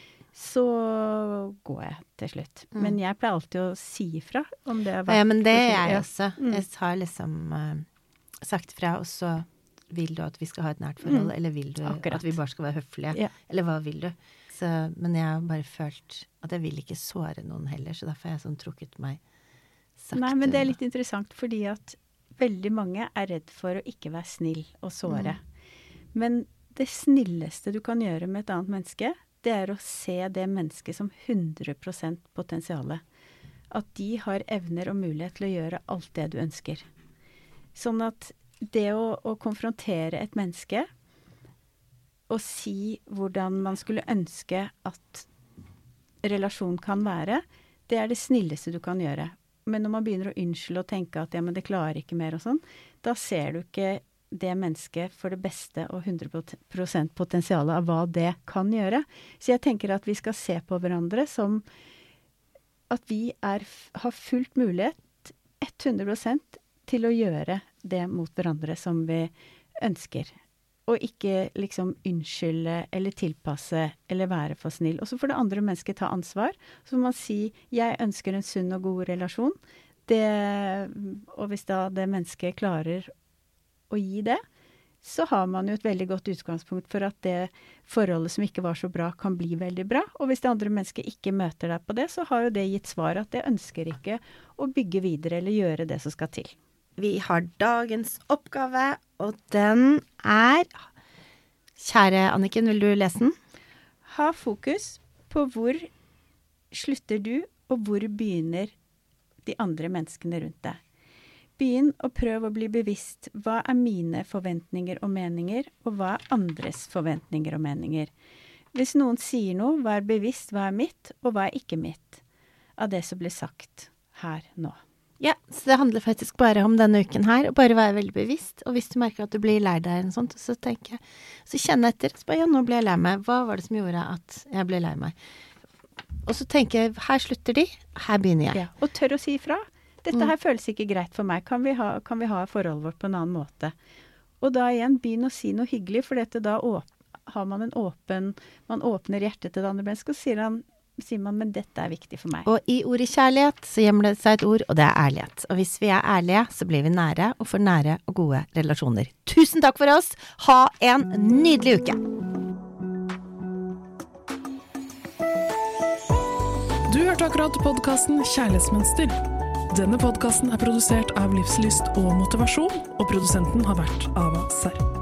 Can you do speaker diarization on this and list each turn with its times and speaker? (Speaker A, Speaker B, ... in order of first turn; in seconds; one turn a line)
Speaker A: 0.3-6.6
Speaker B: 5.1-7.8
Speaker B: 8.4-19.2
Speaker A: 11.0-11.3
Speaker A: 11.8-12.4
Speaker B: 20.0-20.8
Speaker A: 20.1-25.4
Speaker B: 25.1-25.3
Speaker A: 26.1-33.0
Speaker A: 33.7-36.9
Speaker A: 37.7-40.9
Speaker A: 42.3-45.3
Speaker A: 46.2-61.6
Speaker A: 62.9-70.3
Speaker A: 70.8-83.1
Speaker A: 83.9-84.4
Speaker A: 85.0-96.5
Speaker B: 97.0-100.8
Speaker B: 101.8-103.3
Speaker A: 104.0-105.9
Speaker A: 106.7-108.7
Speaker A: 109.4-110.8
Speaker A: 111.6-118.1
Speaker A: 118.7-122.2
Speaker A: 122.8-124.8
Speaker B: 125.2-135.1
Speaker B: 136.2-138.6
Speaker A: 138.5-143.7
Speaker A: 144.4-152.5
Speaker B: 152.4-162.0
Speaker C: 166.9-169.2
Speaker C: 169.7-174.8